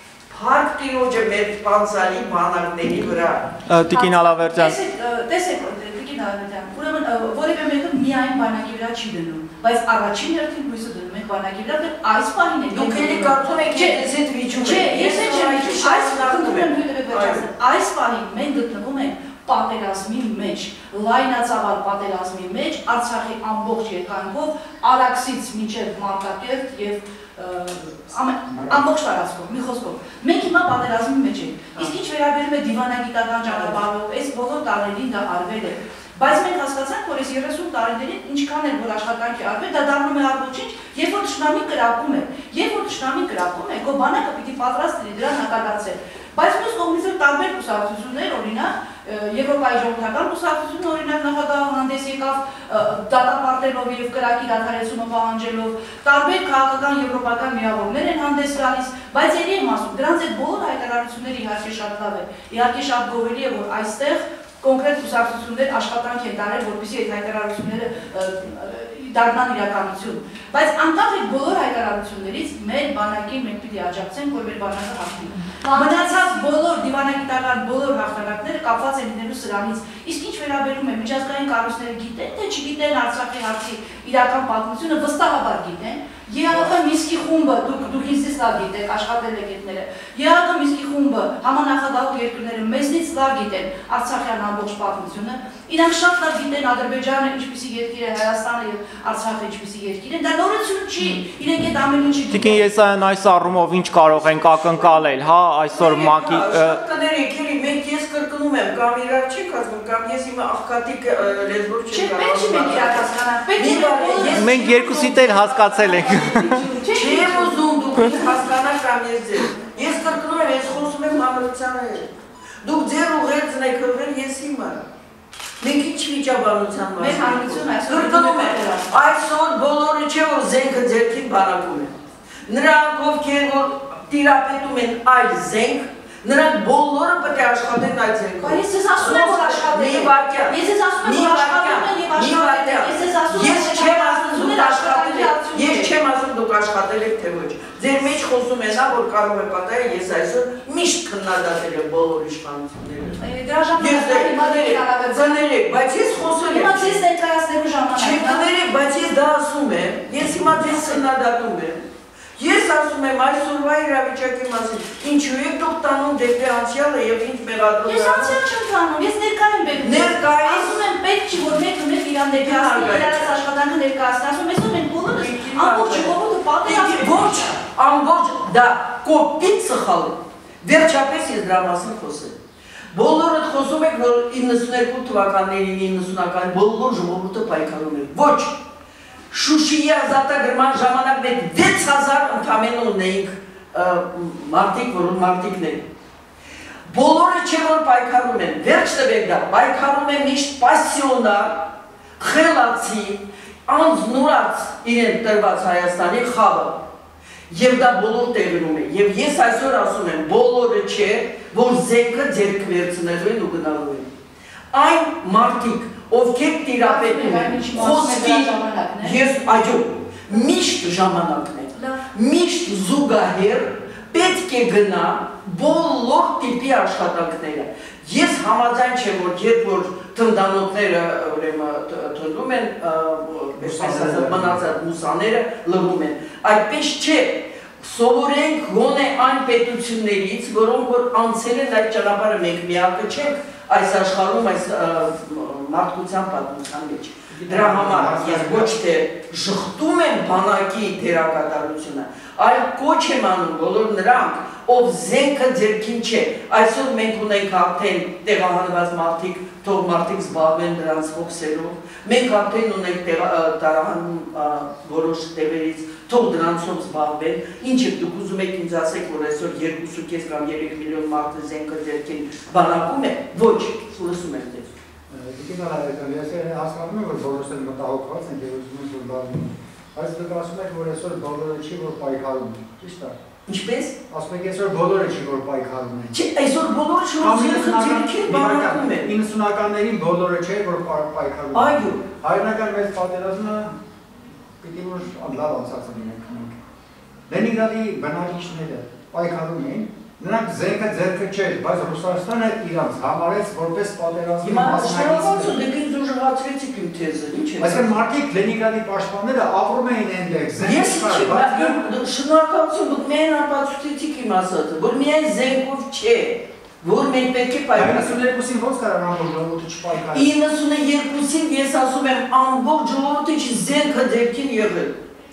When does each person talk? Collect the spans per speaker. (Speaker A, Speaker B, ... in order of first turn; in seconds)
Speaker A: 0.3-3.4, 12.7-17.5, 104.2-114.7, 116.9-122.1, 122.6-124.8, 125.6-131.9, 132.5-153.2, 153.8-157.0, 157.9-161.8, 162.4-168.4, 169.8-170.8, 172.3-173.3, 175.1-182.4, 182.9-188.6, 189.3-195.9, 196.9-206.8, 207.5-214.1, 214.7-274.7, 283.5-283.9, 286.1-289.1, 291.5-292.0, 304.4-308.0, 310.6-318.2, 320.1-325.0
Speaker B: 3.7-4.8, 102.3-106.8, 114.4-116.6
Speaker C: 3.9-102.7, 111.9-118.3, 127.0-129.0, 138.4-145.9, 153.2-155.4, 156.5-158.5, 167.8-177.6, 216.8-219.2
Speaker D: 28.5-28.8, 114.5-116.5, 233.6-234.6, 247.3-248.7, 275.1-283.2, 284.1-286.1, 287.2-293.8, 294.6-296.6, 297.3-305.6, 307.6-311.8, 317.7-320.4